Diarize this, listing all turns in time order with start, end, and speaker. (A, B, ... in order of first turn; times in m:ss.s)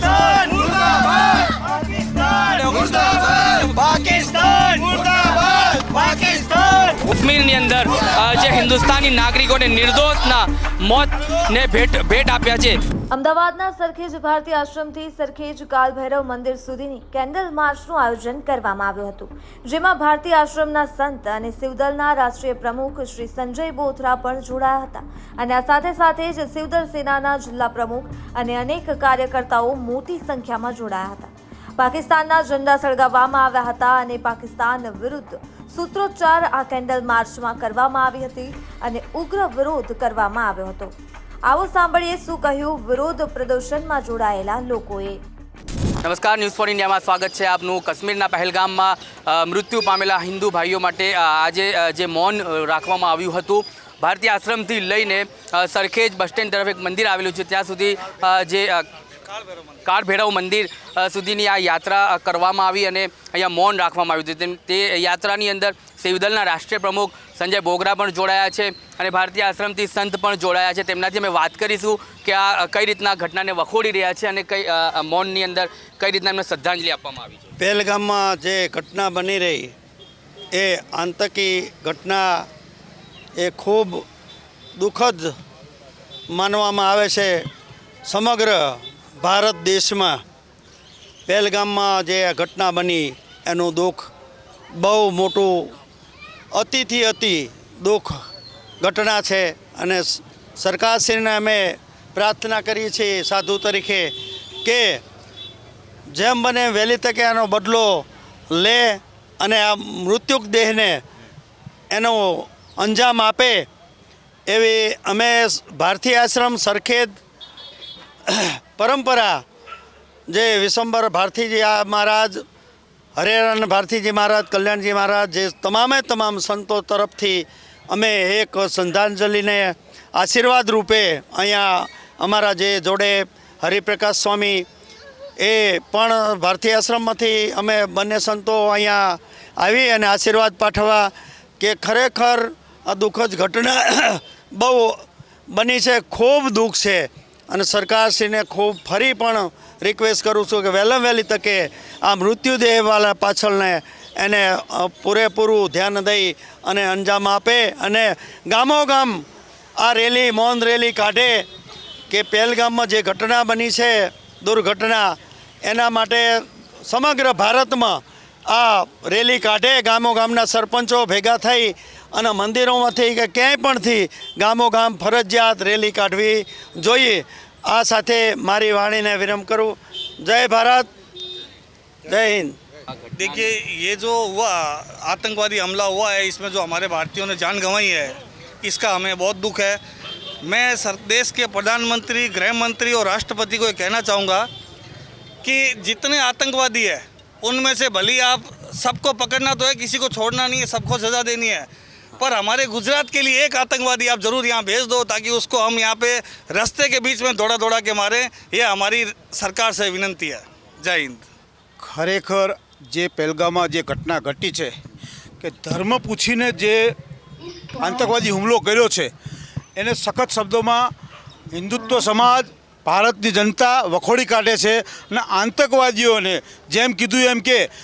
0:02.7-0:03.0 A
0:06.2-0:12.8 B
0:13.1-0:40.9 C
0:41.5-0:45.2 C
0:46.0-0:58.8 B
0:59.3-0:59.7 A
0:59.8-1:17.4 B
1:17.6-1:19.7 D
1:20.5-1:22.5 D
1:23.4-1:24.0 D
1:24.8-1:25.4 D
1:26.3-1:27.5 D
1:28.0-1:30.2 D
1:31.3-1:34.1 D
1:34.7-1:35.7 D
1:36.5-1:38.2 D
1:38.8-1:45.0 D
1:46.1-1:51.0 D
1:51.9-1:53.7 D
1:54.5-1:57.2 D
1:58.3-1:59.4 D
2:00.3-2:02.4 D
2:03.2-2:14.7 D
2:15.4-2:39.2 D
2:39.8-2:41.5 D
2:42.1-3:00.9 D
3:02.0-3:02.5 D
3:03.1-3:09.8 A
3:03.2-3:03.6 B
3:10.4-3:14.5 A
3:15.4-3:31.2 A
3:31.8-3:34.7 E
3:35.4-3:36.9 E
3:37.8-3:39.1 E
3:39.8-3:40.9 E
3:41.5-3:47.7 E